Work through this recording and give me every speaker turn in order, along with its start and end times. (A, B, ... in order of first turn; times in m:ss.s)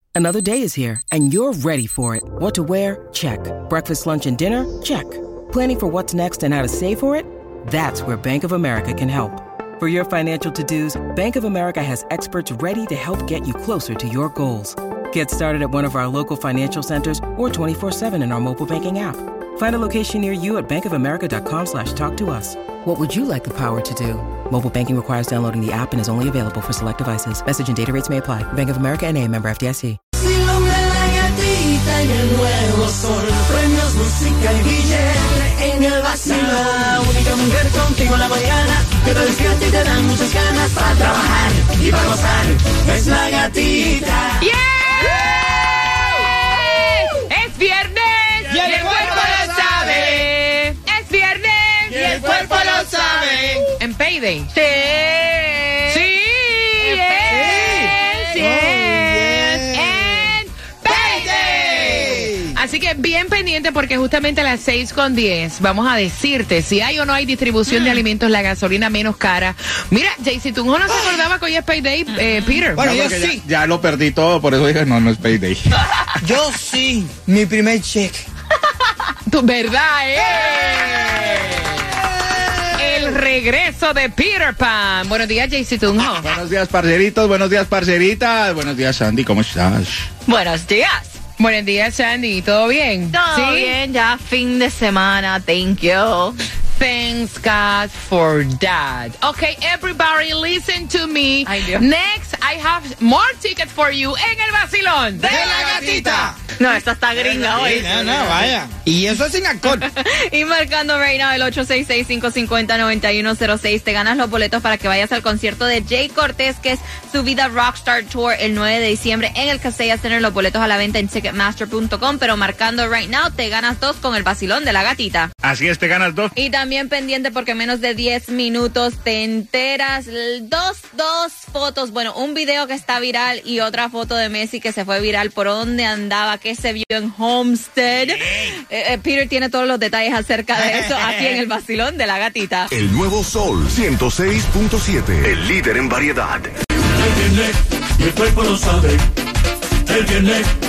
0:00.1-0:30.0 A
0:30.2-0:44.4 B
0:44.4-0:52.1 C
0:45.0-0:45.8 D
0:48.5-0:50.3 D
0:51.9-0:53.6 D
0:52.2-0:52.6 E
0:53.0-0:54.5 C
0:54.6-0:56.0 F
0:55.9-1:12.9 C
0:56.8-0:58.4 F
0:57.2-1:00.3 D
1:00.8-1:02.6 D
1:07.7-1:08.0 F
1:12.1-1:12.6 F
1:12.7-1:13.4 D
1:12.8-1:15.6 E
1:16.2-1:18.2 D
1:19.2-1:21.7 C
1:22.2-1:23.2 D
1:22.7-1:26.3 C
1:26.2-1:30.0 E
1:30.2-1:31.2 F
1:31.4-1:33.8 C
1:33.1-1:36.4 F
1:36.8-1:45.6 C
1:41.4-1:41.8 F
1:45.2-1:48.5 F
1:45.2-1:46.4 D
1:47.1-1:49.8 D
1:49.6-2:05.3 F
2:05.4-2:06.3 E
2:06.3-2:22.7 F
2:17.9-2:18.6 D
2:20.5-2:21.4 D
2:22.7-2:26.3 G
2:28.1-2:29.0 B
2:29.9-2:30.4 B